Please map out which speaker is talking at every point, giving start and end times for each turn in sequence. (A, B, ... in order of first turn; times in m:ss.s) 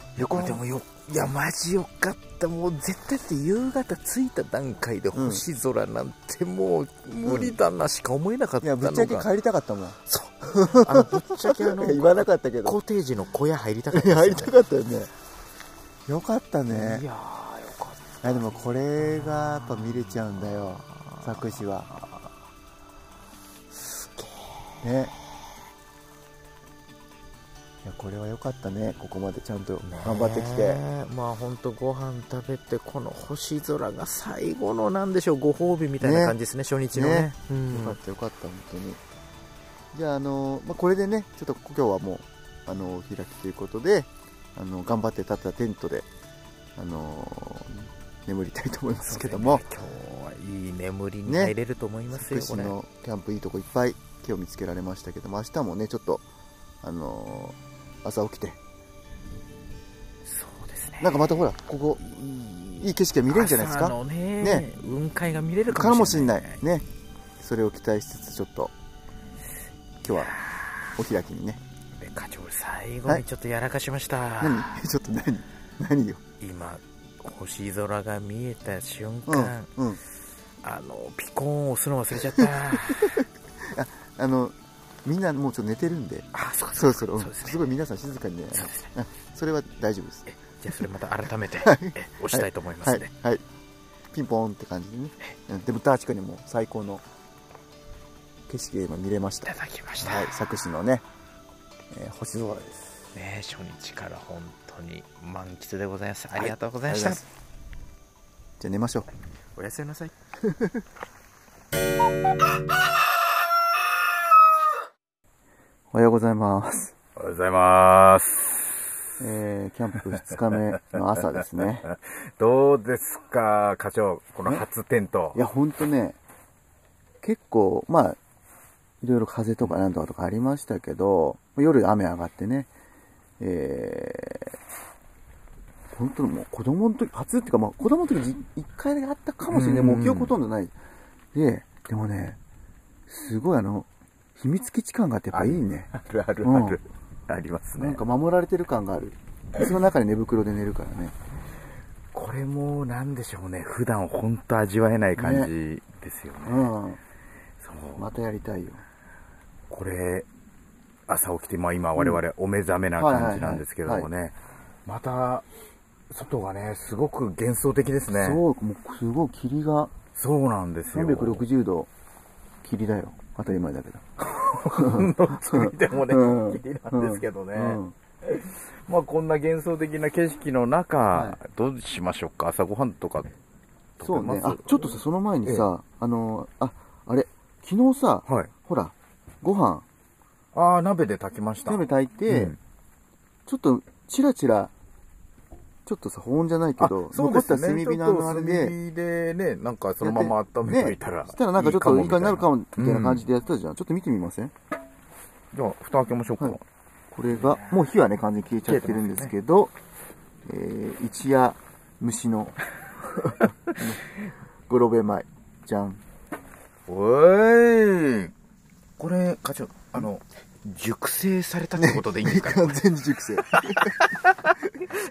0:00.2-0:00.6 A
0:00.2-0:09.3 B
0:05.1-0:05.4 A
0:07.2-0:07.6 A
0:08.6-0:10.0 A
0:10.1-0:14.6 B
0:10.5-0:12.8 A
0:13.9-0:15.1 A
0:16.1-0:17.0 A
0:16.7-0:22.1 B
0:18.2-0:21.9 A
0:23.7-0:24.7 B
0:24.8-0:25.1 A
0:27.8-0:30.8 A
0:29.8-0:38.0 B
0:36.0-0:36.4 A
0:36.9-0:39.0 A
0:39.9-0:46.1 A
0:46.8-0:49.6 A
0:49.0-0:52.7 B
0:51.2-0:51.5 A
0:52.1-0:56.2 A
0:56.8-0:58.6 A
1:00.2-1:01.4 B
1:01.0-1:02.0 A
1:02.0-1:06.6 B
1:02.8-1:04.6 A
1:05.7-1:06.8 A
1:07.4-1:08.7 A
1:10.0-1:10.3 A
1:10.1-1:10.6 B
1:11.0-1:11.6 A
1:12.0-1:14.7 B
1:14.4-1:16.2 A
1:16.4-1:19.7 B
1:19.3-1:20.0 A
1:20.6-1:23.2 B
1:22.4-1:30.2 A
1:26.3-1:27.6 B
1:28.5-1:28.9 B
1:30.3-1:33.1 B
1:31.6-1:33.4 A
1:34.1-1:37.0 A
1:38.5-1:41.0 A
1:39.5-1:40.3 B
1:41.9-1:43.0 A
1:43.1-1:47.2 B
1:46.4-1:47.2 A
1:48.6-1:49.1 A
1:49.6-1:50.1 B
1:50.4-1:50.8 A
1:55.9-1:56.9 A
1:57.2-1:58.7 B
1:59.2-2:01.8 A
2:01.9-2:05.4 B
2:05.3-2:06.2 A
2:07.2-2:08.2 A
2:09.0-2:12.7 A
2:13.4-2:14.6 A
2:15.9-2:20.7 A
2:19.5-2:20.3 B
2:21.3-2:22.4 A
2:23.1-2:25.9 A
2:25.3-2:28.0 B
2:26.4-2:26.8 A
2:27.8-2:31.1 A
2:32.1-2:36.7 B
2:35.2-2:35.5 A
2:36.4-2:37.0 A
2:37.6-2:38.1 B
2:38.0-2:38.8 A
2:39.7-2:40.3 B
2:41.1-2:45.4 B
2:43.0-2:44.1 A
2:46.1-2:48.4 B
2:48.1-2:49.9 A
2:50.2-2:51.4 B
2:50.9-2:51.9 A
2:52.6-2:54.1 A
2:54.2-3:03.3 B
2:54.6-2:57.9 A
3:01.1-3:01.4 A
3:04.0-3:04.9 B
3:04.0-3:09.8 A
3:10.5-3:12.6 B
3:11.7-3:12.6 A
3:13.5-3:14.7 A
3:15.8-3:18.8 A
3:16.8-3:23.2 B
3:20.0-3:24.5 A
3:25.5-3:26.6 B
3:27.1-3:29.7 A
3:27.3-3:27.8 B
3:28.7-3:29.3 B
3:30.4-3:34.0 A
3:34.7-3:36.0 A
3:36.9-3:38.3 B
3:39.0-3:42.8 B
3:41.8-3:43.9 A
3:43.5-3:44.6 B